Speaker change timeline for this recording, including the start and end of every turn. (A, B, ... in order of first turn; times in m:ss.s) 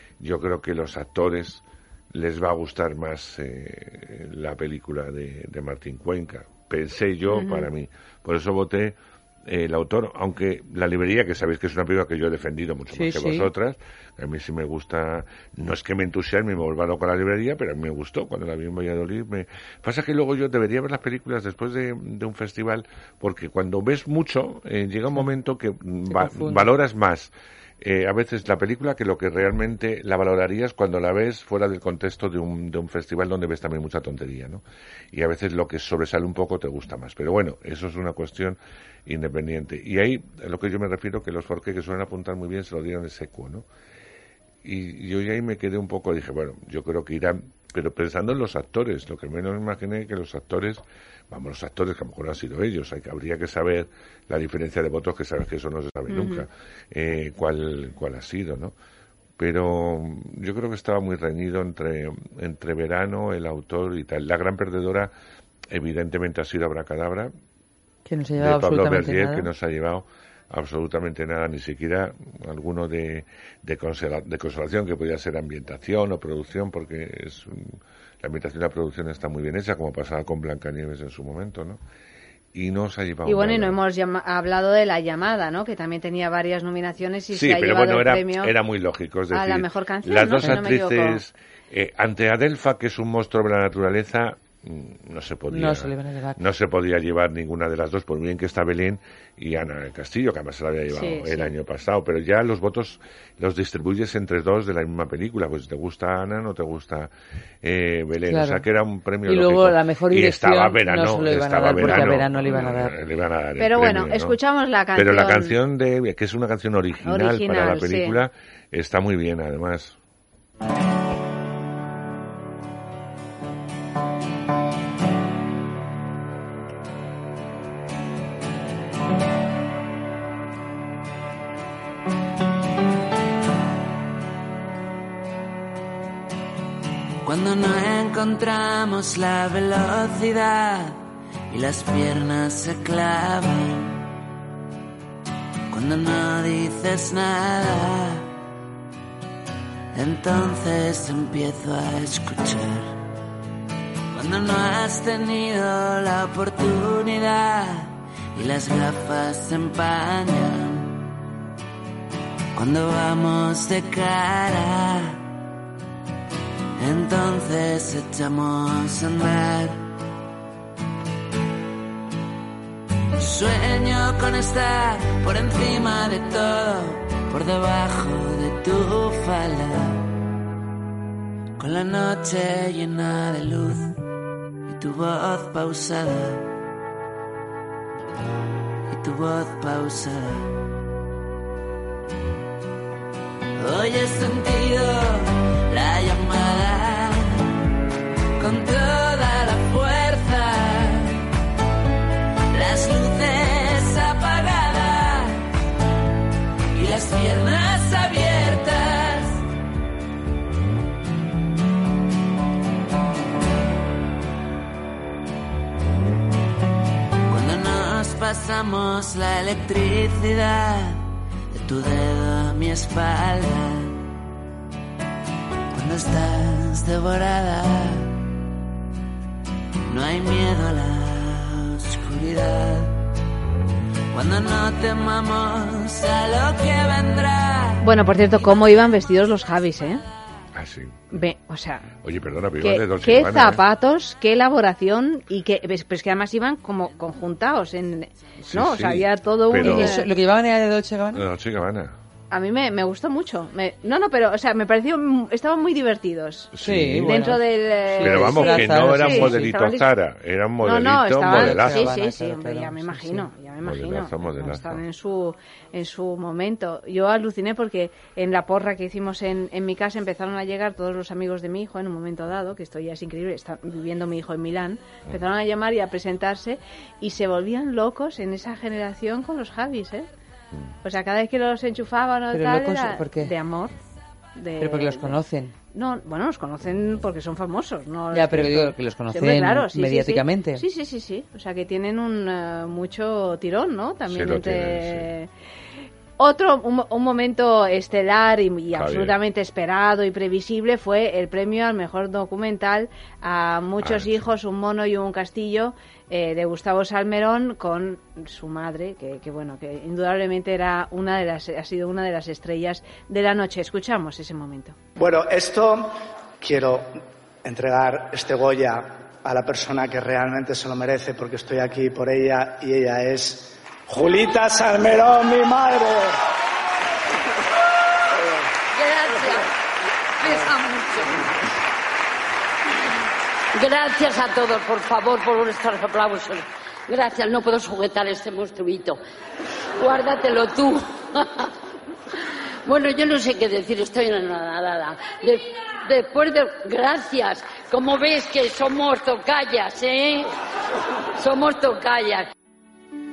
0:00.2-0:43.6 A
0:07.3-0:07.7 B
0:12.9-0:13.5 C
0:26.1-0:26.7 C
0:44.6-0:58.7 A
0:56.1-0:56.4 B
0:59.4-1:05.1 A
1:05.7-1:07.3 A
1:08.1-1:09.5 C
1:08.4-1:21.8 A
1:22.5-1:23.8 A
1:23.2-1:28.5 B
1:27.3-1:47.1 A
1:29.3-1:31.2 B
1:35.5-1:36.4 C
1:40.9-1:41.5 B
1:47.6-1:54.4 A
1:48.3-1:48.6 C
1:49.3-1:52.9 C
1:53.6-1:55.6 B
1:54.9-2:00.0 A
1:57.0-1:58.2 B
2:17.2-2:21.0 D
2:21.5-2:24.0 D
2:25.7-2:28.2 D
2:29.9-2:32.9 D
2:34.1-2:41.0 D
2:42.5-2:45.2 D
2:46.8-2:49.8 D
2:53.2-3:00.0 D
3:01.6-3:03.9 D
3:04.7-3:06.5 D
3:08.9-3:10.5 D
3:13.6-3:17.5 D
3:18.4-3:21.2 D
3:22.5-3:25.4 D
3:26.7-3:29.4 D
3:37.3-3:41.0 D
3:41.5-3:44.0 D
3:45.7-3:48.2 D
3:49.9-3:52.9 D
3:54.1-3:57.8 D
3:57.8-4:00.0 B
4:00.5-4:01.2 A
4:01.1-4:01.9 B
4:02.0-4:03.6 A
4:02.6-4:10.0 B
4:08.4-4:10.0 A
4:09.5-4:11.2 C
4:11.1-4:11.9 A
4:12.3-4:16.5 B
4:16.5-4:17.4 A
4:16.6-4:17.4 C
4:17.0-4:19.9 B
4:18.0-4:19.5 C
4:18.0-4:21.9 A
4:20.6-4:40.1 B
4:21.2-4:23.3 C
4:23.6-4:24.8 A
4:40.8-4:43.7 B
4:42.3-4:43.3 C
4:44.4-4:45.2 B
4:44.6-4:45.5 C
4:45.7-4:55.3 B
4:48.1-4:50.6 C
4:54.1-4:55.1 A
4:56.2-5:14.8 B
4:58.7-4:59.2 A
5:03.8-5:04.3 A
5:15.0-5:26.2 E
5:28.7-5:29.5 F
5:30.2-5:31.3 F
5:33.5-5:39.0 F
5:39.8-5:41.5 F
5:42.6-5:50.3 F
5:51.2-5:52.3 F